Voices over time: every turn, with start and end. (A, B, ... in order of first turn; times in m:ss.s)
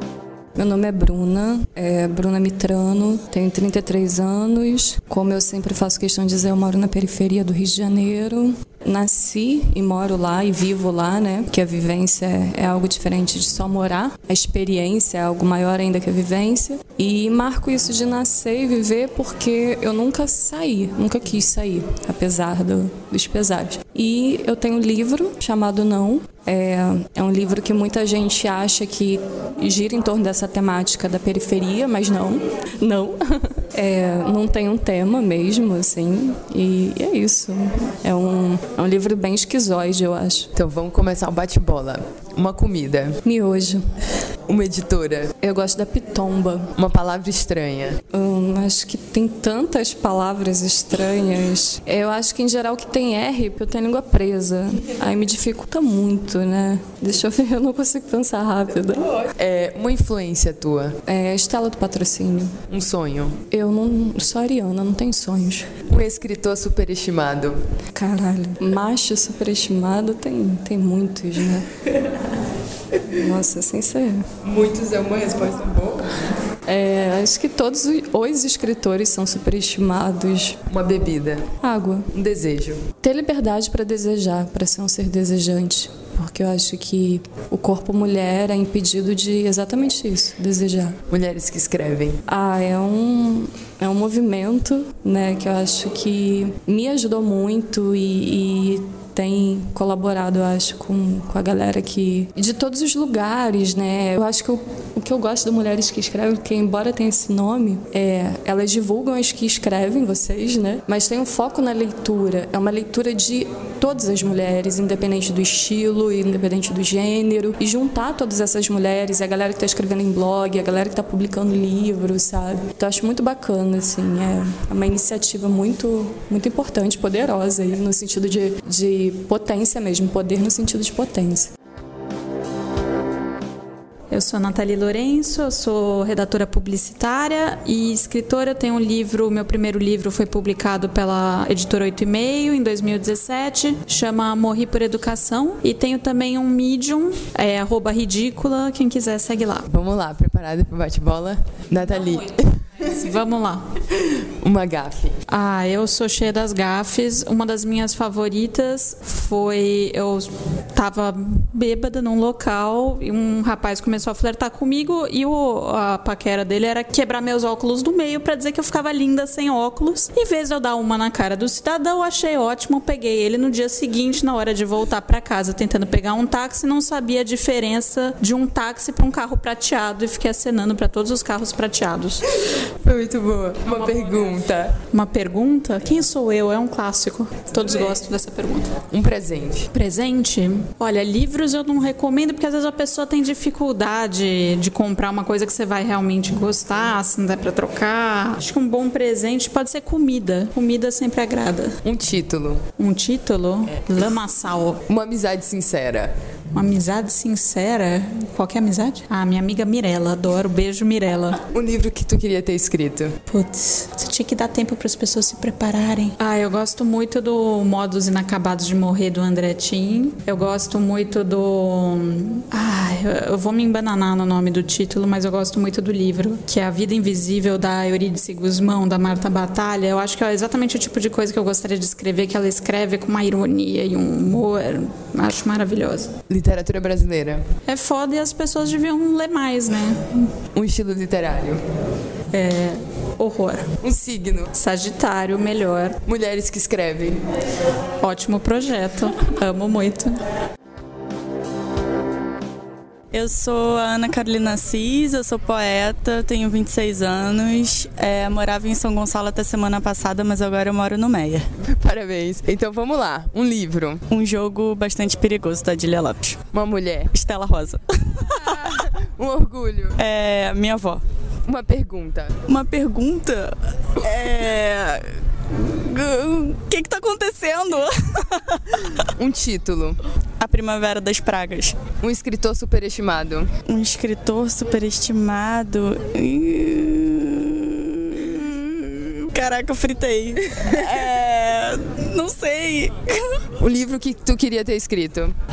0:00.6-0:40.5 A
0:40.6-0:43.2 B
0:43.2-0:43.8 A
0:44.5-0:45.3 B
0:45.4-0:46.7 A
0:46.8-0:48.0 B
0:48.1-0:59.1 A
0:59.4-1:01.0 B
1:01.1-1:02.6 A
1:02.7-1:03.4 B
1:03.5-1:05.7 A
1:05.9-1:07.6 B
1:07.9-1:11.7 A
1:13.1-1:14.3 A
1:14.4-1:16.0 B
1:16.7-1:20.6 A
1:20.7-1:21.4 B
1:21.6-1:22.1 A
1:22.1-1:22.8 B
1:23.0-1:31.0 A
1:31.1-1:32.2 B
1:32.3-2:11.5 A
2:14.1-2:29.6 C
2:29.7-2:32.4 B
2:33.0-2:33.6 C
2:34.4-2:35.2 B
2:35.3-3:02.2 C
3:02.8-3:04.8 B
3:04.9-3:08.7 C
3:08.9-3:09.7 B
3:09.7-3:21.8 C
3:21.8-3:22.6 B
3:22.8-3:24.8 C
3:24.9-3:26.1 B
3:26.5-3:31.4 C
3:31.5-3:33.2 B
3:33.3-3:56.1 C
3:56.3-3:57.4 B
3:57.7-4:00.2 C
4:00.6-4:01.6 B
4:02.3-4:03.7 C
4:03.8-4:04.5 B
4:04.6-4:06.0 C
4:06.1-4:07.2 B
4:08.0-4:10.2 C
4:13.1-4:21.5 D
4:21.6-4:24.0 B
4:24.1-4:26.4 D
4:26.5-4:27.1 B
4:27.1-4:28.8 D
4:29.2-4:30.0 B
4:30.0-4:31.0 D
4:31.5-4:32.3 B
4:32.5-4:39.0 D
4:39.2-4:40.0 B
4:40.4-4:41.8 D
4:42.0-4:43.5 B
4:43.7-4:53.4 D
4:53.6-4:55.4 B